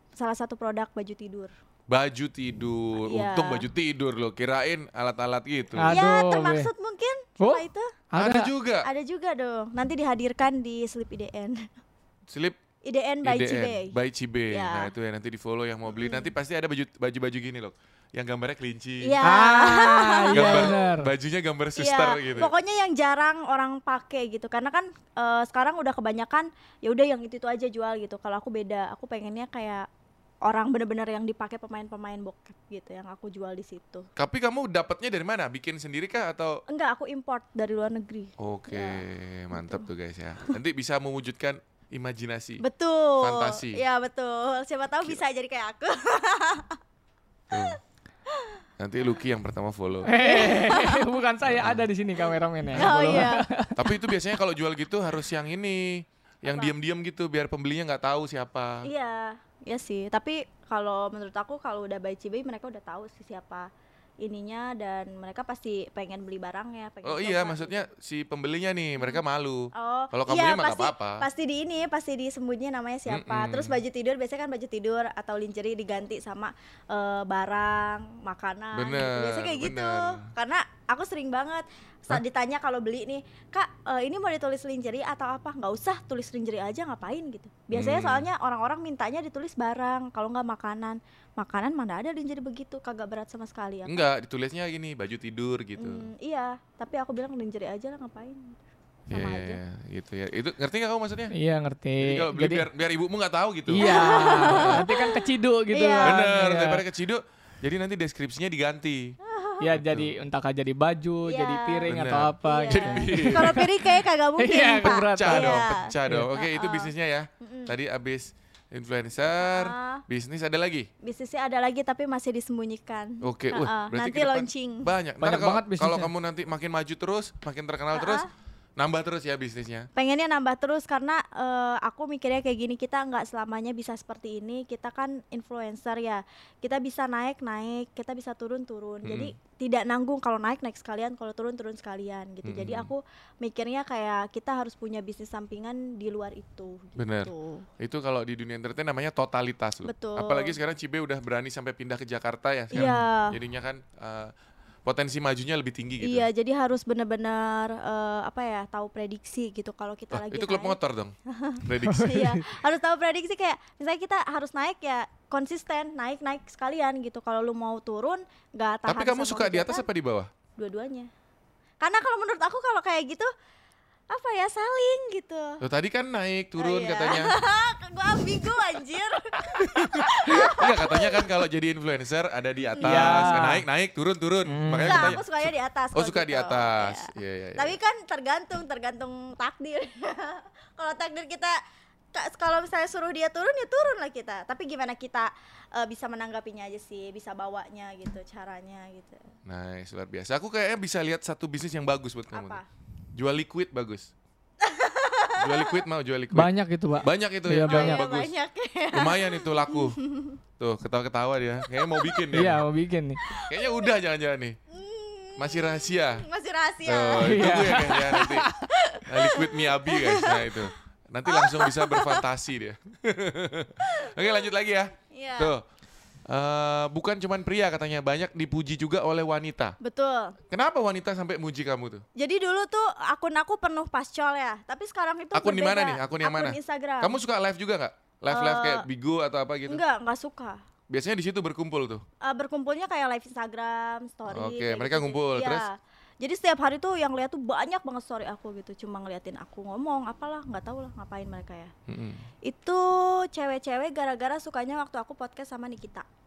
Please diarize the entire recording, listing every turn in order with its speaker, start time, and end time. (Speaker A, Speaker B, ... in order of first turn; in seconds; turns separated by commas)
Speaker A: 0.2-1.5, Speaker B: 1.9-6.0, Speaker A: 3.1-3.7, Speaker C: 5.7-6.7, Speaker A: 5.9-7.9, Speaker C: 7.4-8.5, Speaker B: 8.2-8.9, Speaker A: 8.8-11.7, Speaker B: 12.3-12.6, Speaker A: 12.8-13.9, Speaker B: 13.2-19.1, Speaker A: 14.5-14.9, Speaker A: 16.0-16.3, Speaker A: 19.0-20.8, Speaker C: 19.2-21.1, Speaker B: 20.3-22.5, Speaker A: 21.8-29.9, Speaker A: 30.4-34.1, Speaker B: 34.2-36.6, Speaker A: 36.7-39.0, Speaker B: 38.4-42.6, Speaker A: 39.5-39.9, Speaker A: 42.6-46.8, Speaker B: 43.2-43.8, Speaker B: 47.5-47.8, Speaker A: 48.3-48.6, Speaker B: 48.8-50.1, Speaker C: 50.0-53.8, Speaker A: 50.2-51.1, Speaker B: 51.5-51.8, Speaker A: 52.7-53.5, Speaker B: 53.7-58.9, Speaker A: 56.5-56.7, Speaker A: 58.8-63.7, Speaker A: 64.2-67.9, Speaker B: 67.0-71.2, Speaker A: 69.7-94.0, Speaker B: 73.1-73.8, Speaker B: 78.7-80.3, Speaker B: 87.7-88.3, Speaker B: 93.8-96.1, Speaker A: 95.8-99.6, Speaker B: 99.1-101.3, Speaker C: 101.3-102.7, Speaker B: 102.0-104.8, Speaker C: 103.7-106.8, Speaker A: 103.8-106.2, Speaker B: 106.0-109.2, Speaker A: 109.3-109.7, Speaker C: 109.6-116.3, Speaker B: 109.8-110.1, Speaker A: 111.3-117.7, Speaker B: 111.9-113.7, Speaker B: 114.8-120.9, Speaker A: 119.4-120.0, Speaker A: 121.0-124.9, Speaker B: 123.2-128.2, Speaker C: 125.2-126.1, Speaker A: 127.9-128.3, Speaker B: 128.8-129.9, Speaker A: 129.9-147.7, Speaker B: 139.0-139.3, Speaker B: 142.4-142.9, Speaker B: 147.0-154.3, Speaker A: 149.8-150.6, Speaker A: 152.7-153.4, Speaker C: 152.7-153.0, Speaker B: 154.8-156.2, Speaker A: 156.0-169.8, Speaker B: 160.1-162.3, Speaker C: 161.8-162.4, Speaker B: 168.9-170.3, Speaker A: 170.6-171.1, Speaker A: 171.8-173.3, Speaker A: 174.1-175.6, Speaker B: 175.6-177.3, Speaker A: 176.6-181.3, Speaker B: 179.6-187.8, Speaker A: 182.8-183.4, Speaker C: 182.8-183.6, Speaker C: 184.4-185.2, Speaker A: 184.9-191.6, Speaker A: 192.1-199.3, Speaker B: 199.4-202.6, Speaker A: 202.3-202.6, Speaker B: 203.1-204.1, Speaker A: 204.6-205.8, Speaker B: 205.4-208.3, Speaker C: 206.3-208.0, Speaker A: 207.6-210.4, Speaker B: 208.9-210.0, Speaker B: 210.6-212.6, Speaker A: 211.7-212.2, Speaker C: 212.3-213.2, Speaker A: 213.2-213.9, Speaker B: 213.4-214.6, Speaker A: 214.7-220.6, Speaker B: 215.4-216.2, Speaker B: 216.8-218.5, Speaker C: 217.2-218.6, Speaker B: 219.1-225.6, Speaker A: 221.2-222.2, Speaker A: 223.8-224.5, Speaker A: 225.1-225.5, Speaker B: 226.3-229.8, Speaker A: 229.8-230.4, Speaker B: 230.5-232.0, Speaker A: 232.2-237.2, Speaker B: 235.3-239.8, Speaker A: 238.3-238.8, Speaker A: 239.7-240.6, Speaker B: 240.9-242.0, Speaker A: 242.2-251.7, Speaker B: 244.3-245.7, Speaker B: 251.9-252.2, Speaker A: 252.4-256.0